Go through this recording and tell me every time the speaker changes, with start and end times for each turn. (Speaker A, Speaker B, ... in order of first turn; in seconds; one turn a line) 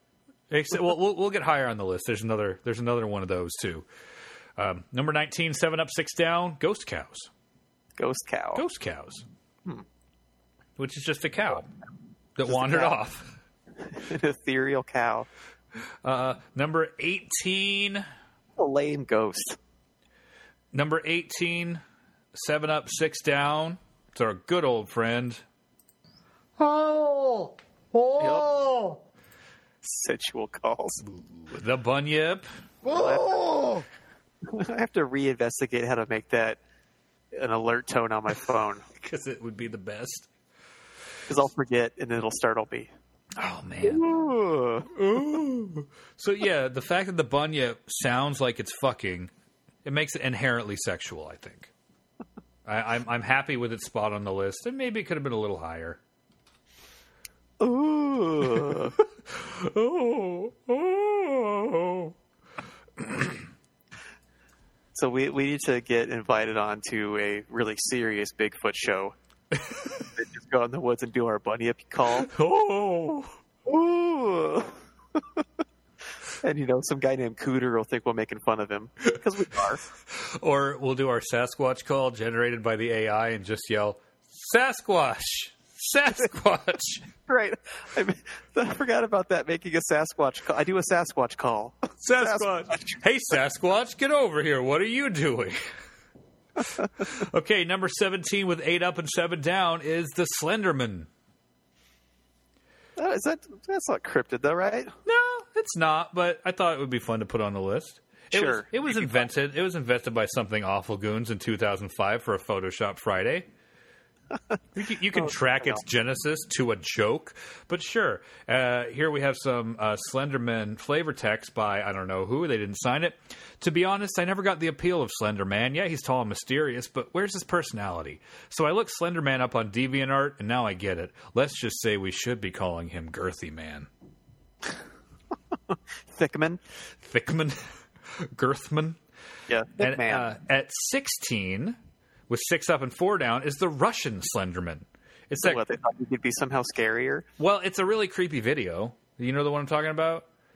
Speaker A: 0.5-3.9
Speaker A: 4.6-7.3
Speaker B: 8.0-8.6
Speaker A: 8.6-9.2
Speaker A: 10.8-11.7
Speaker A: 12.3-13.4
Speaker B: 12.4-12.9
Speaker B: 13.9-15.3
Speaker A: 16.0-18.0
Speaker B: 18.6-19.6
Speaker A: 20.7-21.8
Speaker A: 22.3-25.4
Speaker C: 26.6-29.0
Speaker B: 28.2-28.5
Speaker B: 29.8-31.0
Speaker A: 31.0-32.5
Speaker C: 32.8-33.8
Speaker B: 32.9-33.5
Speaker B: 34.4-36.6
Speaker B: 37.3-38.8
Speaker A: 39.0-40.3
Speaker B: 41.3-42.9
Speaker A: 43.4-44.0
Speaker B: 43.8-44.9
Speaker A: 44.9-49.3
Speaker A: 49.8-51.7
Speaker A: 52.6-56.0
Speaker B: 57.6-59.0
Speaker A: 58.7-62.1
Speaker A: 63.0-63.4
Speaker B: 64.9-69.1
Speaker A: 69.7-69.9
Speaker B: 70.1-72.3
Speaker A: 72.2-73.3
Speaker B: 73.7-75.4
Speaker B: 76.4-79.8
Speaker A: 80.1-87.0
Speaker B: 87.2-93.0
Speaker A: 92.0-95.6
Speaker A: 96.6-101.1
Speaker B: 103.0-104.9
Speaker A: 105.0-113.5
Speaker B: 108.3-109.3
Speaker A: 114.7-133.9
Speaker B: 115.1-115.8
Speaker B: 135.7-136.6
Speaker A: 137.0-139.0
Speaker B: 139.5-140.3
Speaker A: 139.8-141.8
Speaker A: 142.3-145.6
Speaker B: 145.4-147.3
Speaker A: 147.4-150.2